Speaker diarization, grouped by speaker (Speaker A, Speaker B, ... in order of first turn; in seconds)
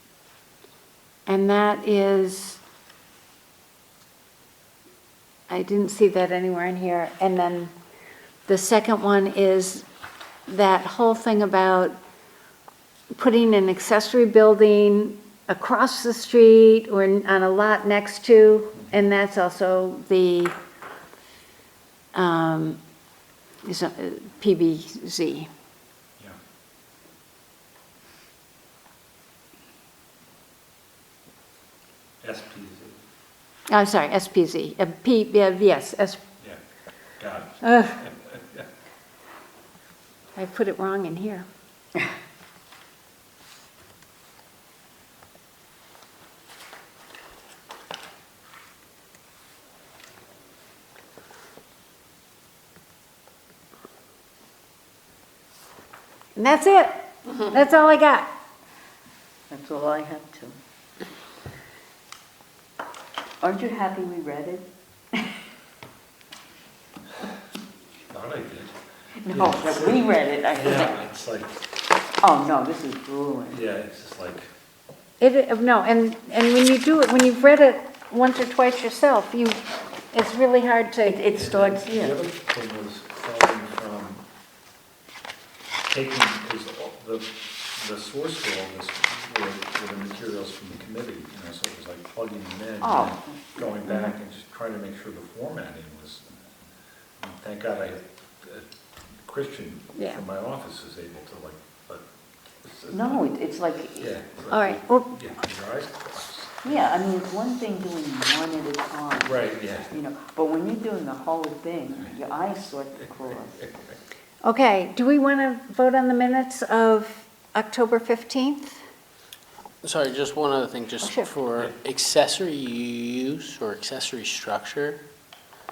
Speaker A: 1.3-2.6, 5.5-7.7, 8.5-9.8, 10.5-12.0, 13.1-20.5, 22.1-22.8, 23.6-25.5, 33.7-36.2, 37.6-38.0, 40.3-41.4, 56.4-58.3, 75.2-81.2, 104.5-105.2, 114.4-118.8, 121.0-121.3
Speaker B: 32.2-33.0, 37.2-38.6, 68.1-68.7, 69.3-71.5, 73.5-74.5, 81.4-84.2, 85.8-96.3, 97.2-98.7, 99.2-102.0, 102.6-103.3, 104.0-106.8, 109.2-109.9
Speaker C: 59.5-60.5, 63.4-65.3, 69.2-71.0, 72.2-73.6, 81.0-82.2, 92.8-93.7, 102.9-104.1, 106.6-113.7
Speaker D: 119.8-125.0